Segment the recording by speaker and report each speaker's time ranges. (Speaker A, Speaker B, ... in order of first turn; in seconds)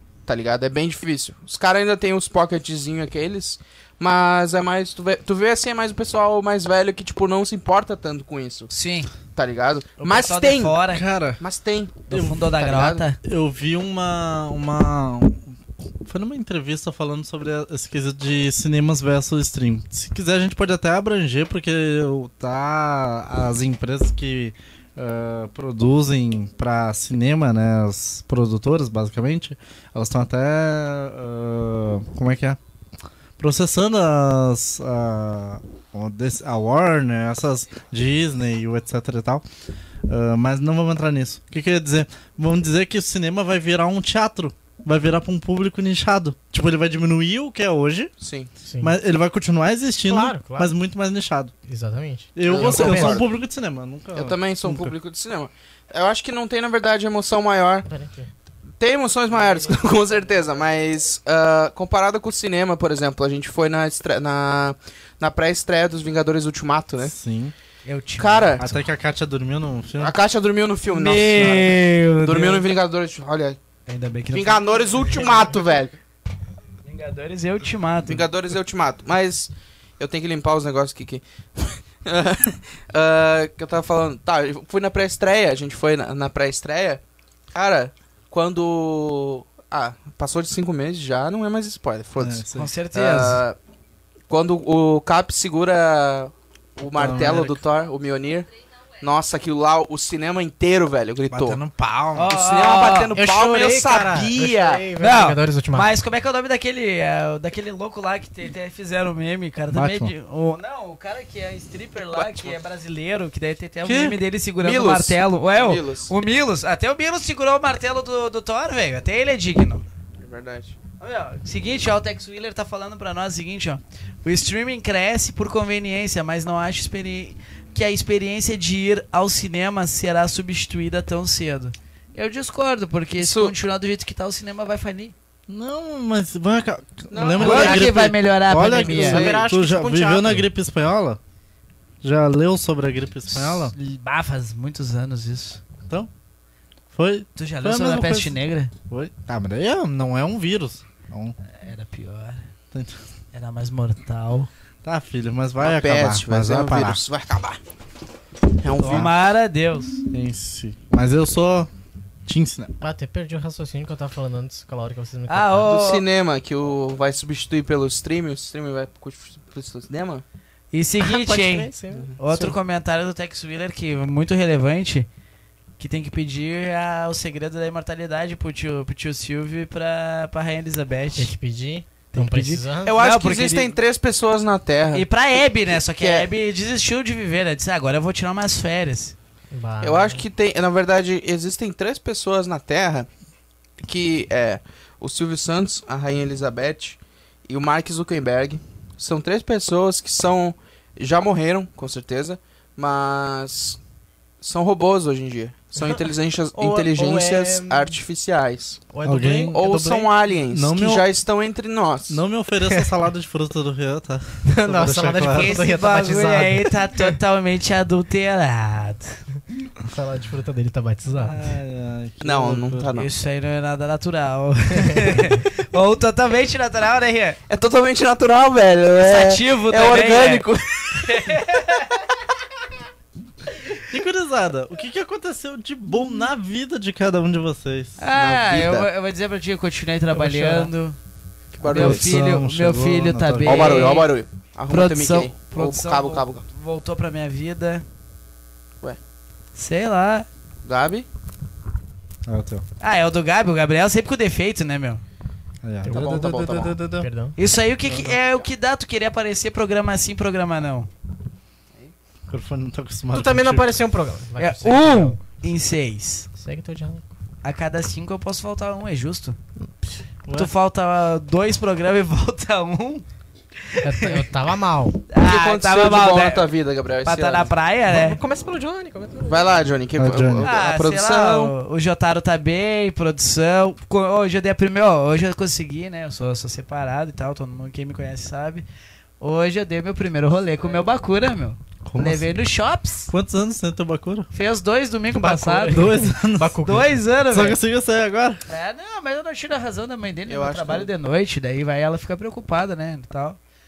Speaker A: 0.2-8.7, 9.3-10.8, 11.4-12.1, 12.6-13.1, 48.2-48.5, 52.5-53.3, 54.1-57.9, 58.8-67.1, 68.2-68.6, 70.0-73.6, 74.3-76.0, 78.1-87.0, 87.5-93.6, 94.3-101.6, 102.3-104.8, 112.1-112.6, 114.6-116.1, 120.2-120.8, 133.2-133.5, 137.1-137.9, 139.0-139.4, 155.6-157.6, 158.6-159.1, 165.6-170.2, 171.9-172.5, 182.8-185.1, 185.7-186.3, 189.8-193.1, 193.8-203.8, 204.4-208.8, 209.5-212.2, 222.2-223.1, 227.5-231.4, 238.1-238.9, 241.5-242.1, 243.4-246.4, 250.6-251.1, 255.9-256.8, 275.2-277.5, 279.3-281.5, 300.3-300.9
Speaker B: 8.7-9.1, 10.0-11.0, 12.1-13.2, 67.8-68.8, 70.9-72.7, 73.9-74.6, 76.8-78.3, 92.5-93.4, 102.1-103.1, 105.0-119.8, 121.0-135.1, 137.4-139.3, 143.3-145.6, 147.3-148.7, 151.6-152.5, 153.3-154.5, 158.8-160.0, 165.3-166.0, 170.7-175.1, 175.8-181.3, 182.1-183.8, 184.9-189.1, 215.3-219.2, 222.9-227.4, 229.0-231.9, 238.0-241.0, 241.6-244.1, 244.7-247.8, 249.5-250.3, 252.8-255.0, 257.4-260.9, 264.4-266.3, 267.4-269.4, 270.3-273.0, 273.6-274.2, 275.1-276.5, 277.0-278.2, 280.4-288.6, 289.2-293.1, 294.3-296.0, 296.6-297.6, 298.5-303.4
Speaker C: 10.9-11.4, 12.1-12.5, 13.2-15.4, 16.0-32.6, 33.4-39.4, 40.1-48.1, 48.8-51.5, 52.4-54.9, 67.0-67.5, 68.6-70.1, 92.2-92.7, 96.9-97.6, 101.3-102.3, 109.7-110.1, 113.8-114.2, 135.5-141.2, 142.0-143.7, 146.9-148.3, 148.9-151.3, 152.7-153.0, 154.8-157.0, 158.8-159.1, 160.1-161.7, 162.2-162.7, 209.0-211.1, 212.1-215.6, 221.2-222.9, 233.7-238.0, 241.7-243.9, 252.2-252.6, 255.6-257.1, 257.9-258.1, 262.3-263.7, 270.2-270.5, 279.9-280.5, 291.9-292.3, 293.1-294.3, 295.7-296.6, 297.3-298.4
Speaker D: 48.6-48.9, 50.1-50.7, 51.6-53.2, 57.9-58.3, 103.1-105.9, 137.4-137.9, 138.7-140.4, 162.8-165.8, 171.0-172.1, 181.2-183.0, 189.5-190.2, 205.8-206.0, 206.5-208.0, 208.9-210.0, 214.5-216.8, 219.8-221.4, 224.8-225.3, 240.2-240.7, 255.8-256.2, 257.0-257.3, 263.1-265.2, 266.4-267.1, 273.8-275.0, 277.9-279.6, 295.1-297.0